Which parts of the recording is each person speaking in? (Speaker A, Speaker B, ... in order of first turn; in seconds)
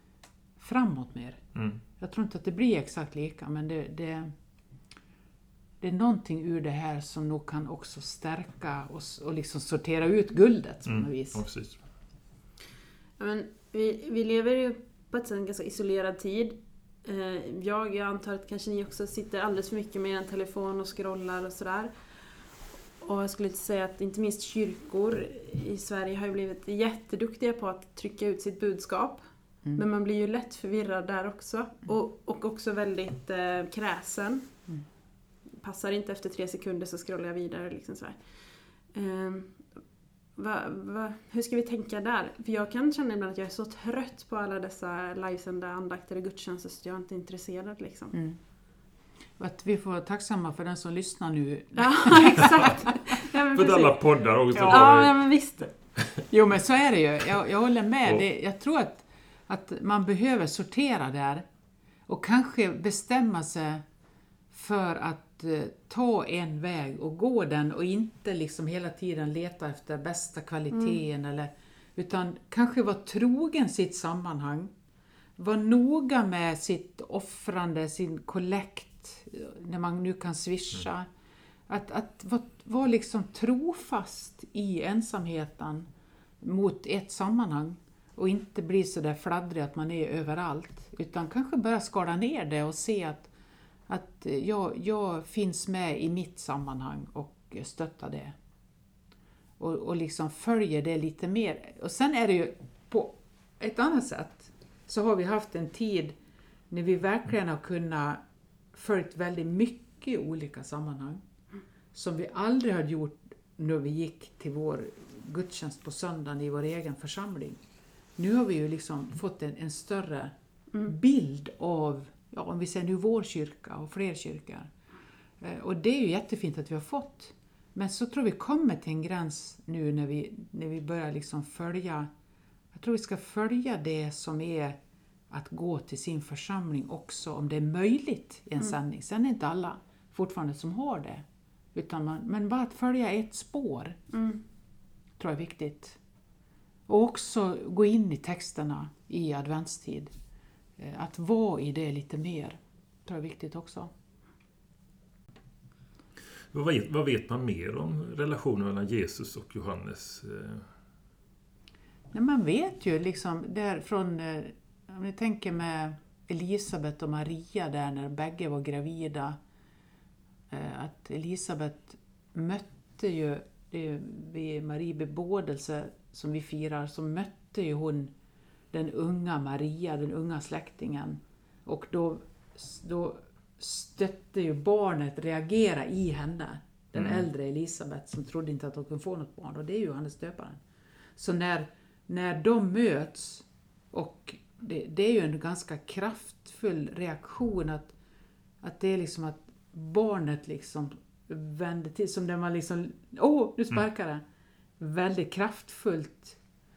Speaker A: 0.6-1.4, 2.0-4.3, 5.8-11.4, 48.1-48.4, 49.4-53.0, 54.5-54.9, 56.3-61.4, 62.1-63.8, 64.5-74.7, 75.4-81.1, 81.7-85.9, 86.4-93.3, 93.9-98.3, 99.6-106.2, 106.7-108.2, 108.7-111.2, 111.9-117.6, 118.2-124.7, 125.4-132.1, 132.7-134.8, 135.3-144.0, 145.2-146.0, 146.9-150.1, 150.8-153.9, 162.1-169.4, 170.5-178.1, 178.7-190.6, 191.2-197.9, 198.6-204.2, 204.8-206.4
Speaker B: 1.5-1.8, 10.8-11.8, 53.4-56.3, 156.5-160.7, 186.9-187.2
Speaker C: 13.2-21.9, 23.0-34.6, 35.6-38.3, 38.9-39.7, 40.4-48.1, 51.8-55.7, 144.1-144.4